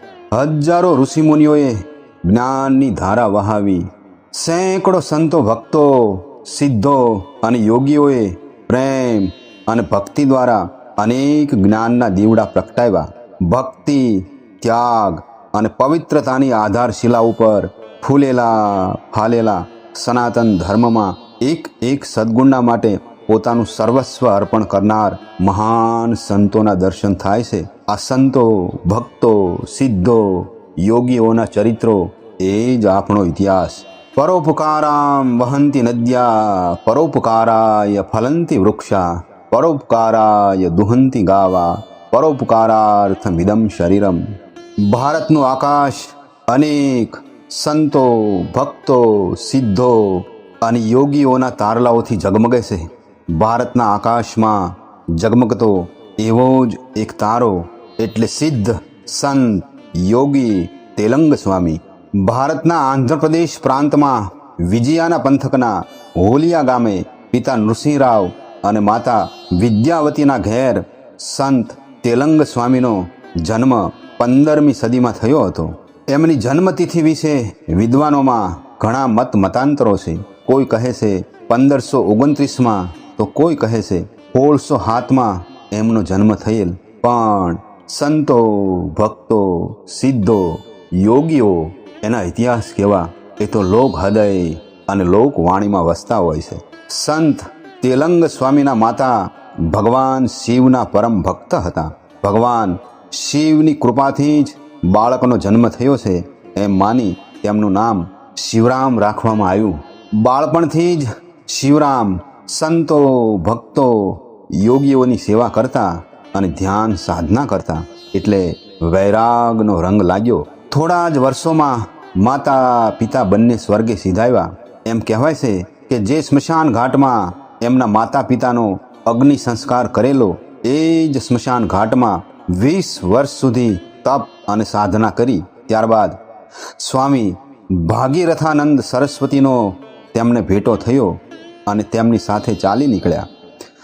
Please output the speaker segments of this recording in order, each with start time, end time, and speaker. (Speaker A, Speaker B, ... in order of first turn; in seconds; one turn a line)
Speaker A: 0.3-44.2
Speaker A: 44.8-136.2
Speaker A: 136.8-143.3